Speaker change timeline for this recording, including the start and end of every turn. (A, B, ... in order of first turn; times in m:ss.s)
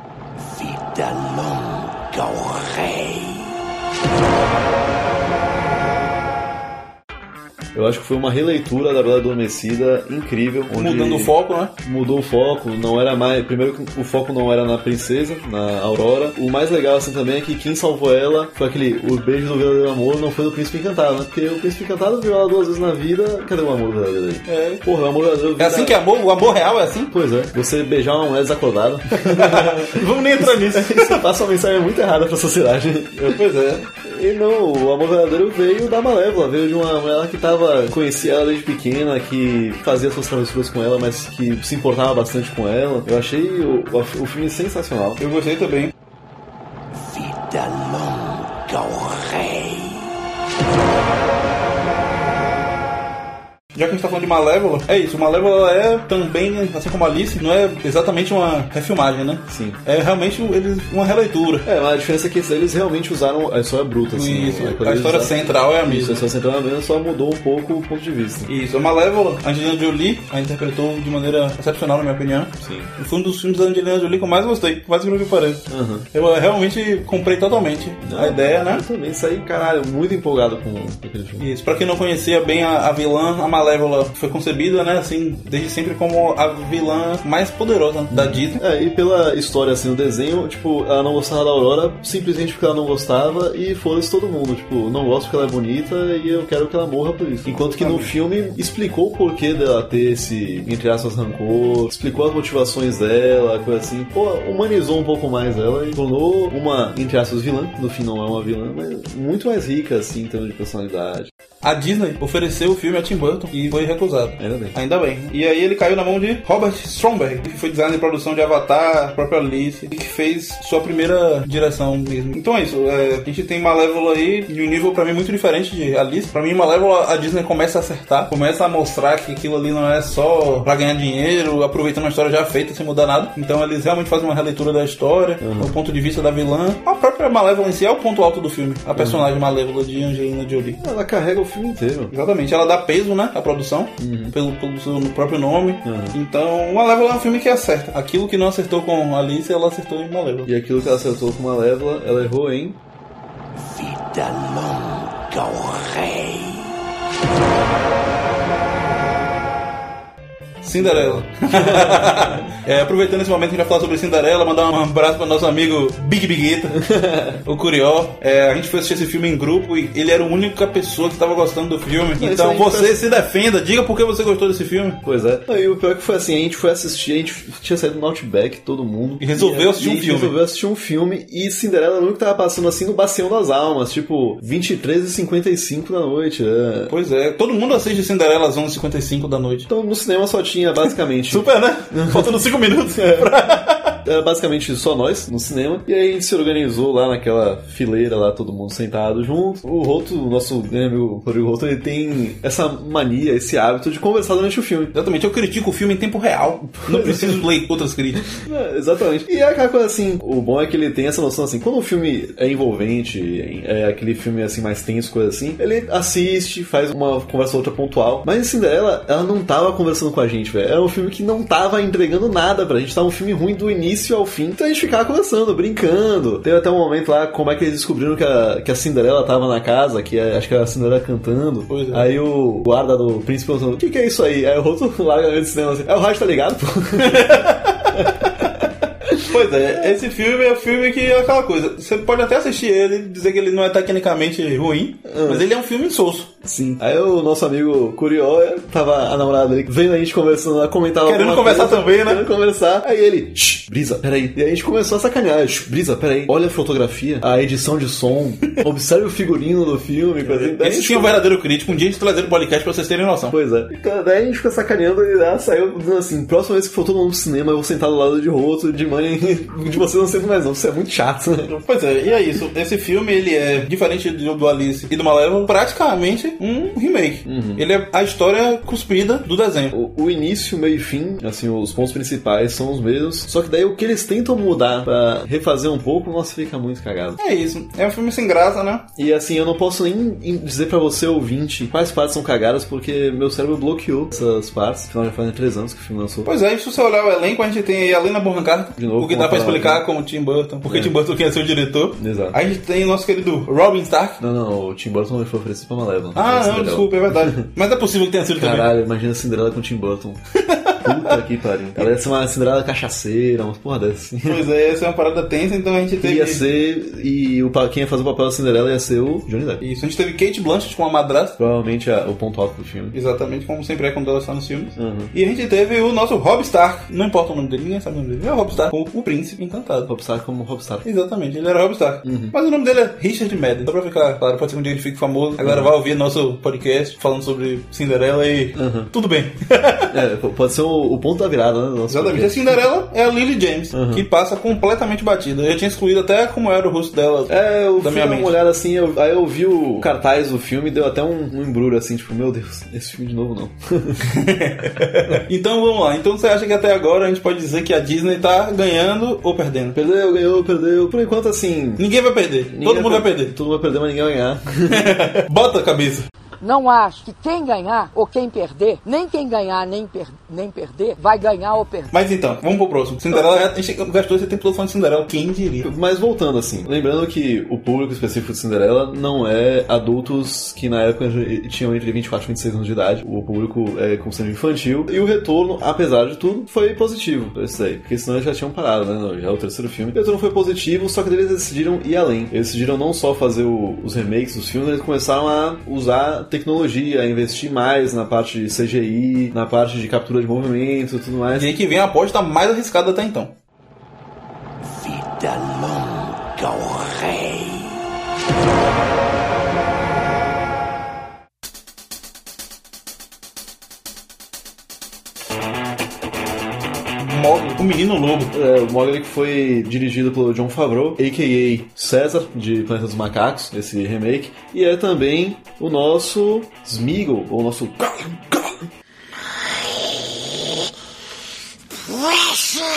0:00.3-0:03.6 A
0:07.7-0:26.0 B
0:10.8-0:11.8 C
0:24.5-0:24.8 C
0:25.6-0:27.1 C
0:27.1-0:45.2 B
0:29.1-0:31.2 C
0:33.2-0:33.9 C
0:45.2-0:45.9 C
0:46.9-0:50.1 A
0:53.8-1:01.7 C
0:59.5-0:59.8 B
1:01.6-1:08.5 B
1:04.1-1:06.2 C
1:08.5-1:18.8 C
1:12.6-1:12.9 B
1:15.7-1:16.1 B
1:18.0-1:21.4 B
1:21.4-1:28.6 C
1:28.1-1:51.3 B
1:37.5-1:38.1 C
1:51.6-2:20.8 C
1:54.4-1:54.8 B
2:15.4-2:15.7 B
2:19.0-2:19.3 B
2:20.8-2:22.1 B
2:22.1-2:30.5 C
2:24.0-2:24.4 B
2:25.8-2:26.2 B
2:30.4-2:32.8 B
2:33.5-2:36.8 A
2:40.6-2:46.8 C
2:40.8-2:42.5 B
2:46.8-2:47.4 B
2:47.4-2:55.0 C
2:52.2-2:53.0 B
2:55.0-3:06.9 B
2:59.2-3:00.4 C
3:06.9-3:09.7 C
3:09.7-3:13.3 B
3:11.3-3:14.0 C
3:14.0-3:24.9 B
3:24.9-3:28.3 C
3:26.8-3:27.4 B
3:28.3-3:59.8 B
3:51.7-3:52.1 C
3:57.0-3:58.6 C
3:59.2-4:06.5 C
4:05.0-4:05.5 B
4:06.4-4:21.2 B
4:11.0-4:12.2 C
4:20.2-4:23.4 C
4:23.3-4:31.5 B
4:31.5-4:39.7 C
4:37.2-4:37.6 B
4:39.7-4:47.2 B
4:47.2-4:48.9 C
4:49.0-4:56.3 B
4:56.2-5:04.2 C
4:58.8-4:59.8 B
5:00.7-5:00.9 B
5:02.0-5:02.4 B
5:04.2-5:07.5 B
5:06.2-5:08.7 C
5:08.4-5:10.2 B
5:10.4-5:11.2 C
5:10.8-5:14.4 B
5:14.3-5:16.4 C
5:16.0-5:19.6 B
5:19.6-5:21.4 C
5:21.4-5:23.0 B
5:22.9-5:29.9 C
5:24.8-5:25.1 B
5:29.9-5:30.9 B
5:30.8-5:40.0 C
5:32.0-5:32.3 B
5:35.4-5:35.7 B
5:38.6-5:38.9 B
5:39.9-5:42.6 B
5:41.9-5:48.4 C
5:43.7-5:44.1 B
5:47.3-5:54.0 B
5:54.0-5:59.8 C
5:59.7-6:01.8 B
6:01.8-6:03.4 C
6:02.5-6:05.1 B
6:04.7-6:06.1 C
6:06.4-6:11.9 D
6:11.9-6:15.7 C
6:15.6-6:41.6 B
6:41.4-6:43.3 C
6:44.6-6:47.8 A
6:57.0-6:58.3 C
6:58.3-7:08.7 B